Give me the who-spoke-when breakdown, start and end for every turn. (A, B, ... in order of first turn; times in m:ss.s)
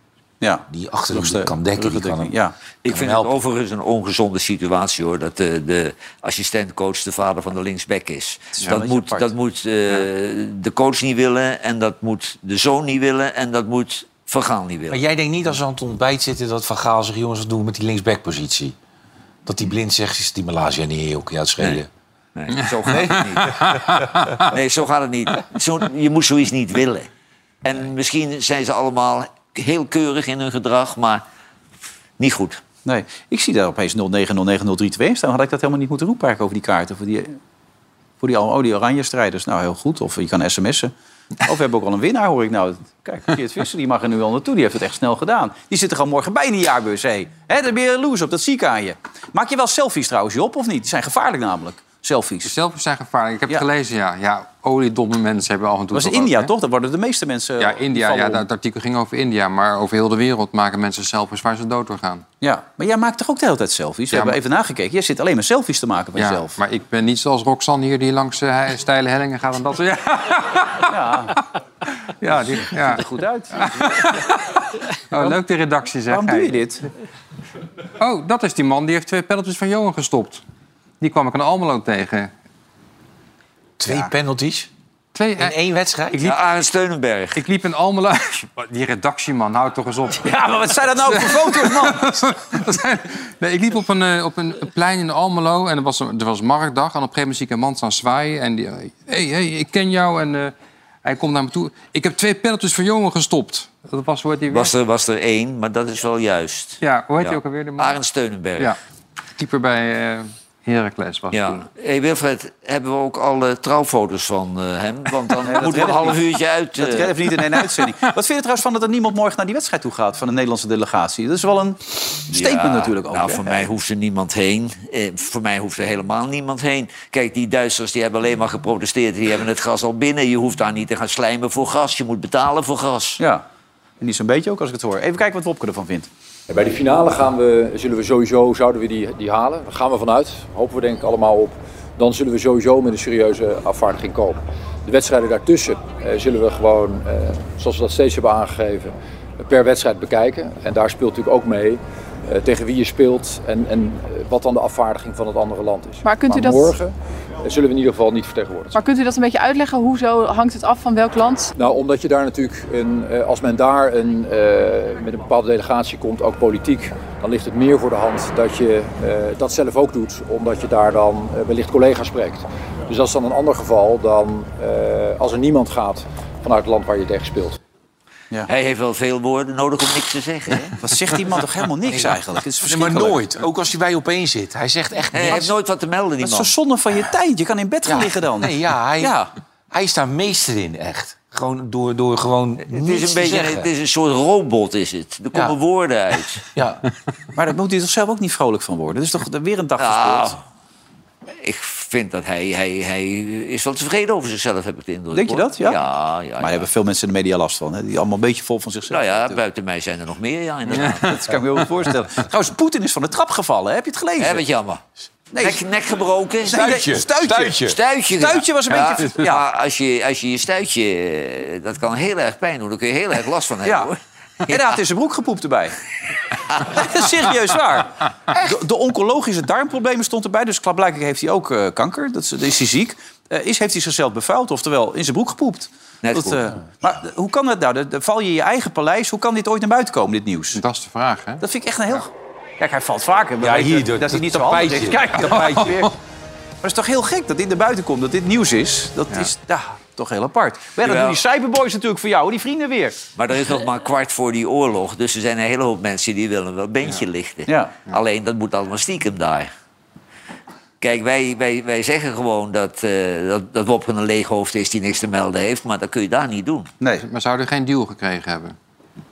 0:00.4-0:02.5 A
0:00.7-0:03.3 B
0:02.8-0:15.0 C
0:08.5-0:09.3 A
0:14.9-0:18.7 B
0:19.4-0:21.9 B
0:22.3-0:23.6 C
0:22.7-0:24.4 D
0:24.5-0:27.1 C
0:27.6-0:31.2 C
0:32.2-0:32.6 C
0:32.8-0:37.4 A
0:38.2-0:40.9 A
0:41.4-0:52.5 A
0:52.4-0:56.5 D
0:55.9-0:58.4 A
0:57.6-1:02.2 D
1:02.4-1:06.6 A
1:04.1-1:04.4 D
1:06.2-1:11.4 D
1:10.9-1:11.4 A
1:12.2-1:16.6 D
1:12.5-1:14.0 A
1:16.1-1:16.9 A
1:18.0-1:20.4 D
1:21.0-1:22.3 D
1:23.8-1:24.7 B
1:25.1-1:25.5 D
1:25.4-1:26.2 B
1:26.1-1:26.4 D
1:26.2-1:27.4 C
1:27.3-1:30.3 D
1:30.2-1:32.0 A
1:31.1-1:40.5 D
1:41.0-1:44.7 D
1:44.5-1:48.8 C
1:46.8-1:48.0 D
1:49.4-1:51.6 D
1:51.3-1:57.2 C
1:55.4-1:56.2 A
1:56.8-2:03.7 A
1:57.4-1:58.0 D
2:02.3-2:13.2 C
2:13.2-2:13.4 A
2:14.0-2:16.1 A
2:16.5-2:38.8 E
2:36.0-2:36.8 F
2:38.7-2:41.5 F
2:41.6-2:57.6 E
2:58.5-3:00.7 C
3:00.8-3:03.2 A
3:01.9-3:05.5 B
3:05.1-3:06.5 C
3:06.2-3:09.3 A
3:07.8-3:09.2 B
3:09.7-3:13.7 B
3:12.7-3:16.4 C
3:16.5-3:16.8 B
3:17.3-3:20.4 A
3:19.8-3:20.4 C
3:21.4-3:26.7 C
3:25.1-3:25.8 A
3:26.4-3:29.4 A
3:28.9-3:31.2 C
3:30.8-3:31.0 D
3:30.8-3:34.4 A
3:34.2-3:34.8 C
3:35.3-3:35.6 A
3:35.4-3:36.6 C
3:36.4-3:39.4 A
3:36.5-3:37.8 B
3:37.6-3:44.7 C
3:44.5-3:45.8 A
3:46.5-3:46.8 C
3:46.6-4:00.6 A
3:56.0-3:56.4 C
4:00.5-4:02.0 D
4:01.4-4:05.9 A
4:03.4-4:05.8 B
4:05.2-4:05.8 D
4:06.6-4:13.0 A
4:10.8-4:11.2 C
4:13.2-4:19.5 C
4:17.5-4:17.8 A
4:20.8-4:26.7 C
4:27.0-4:28.6 D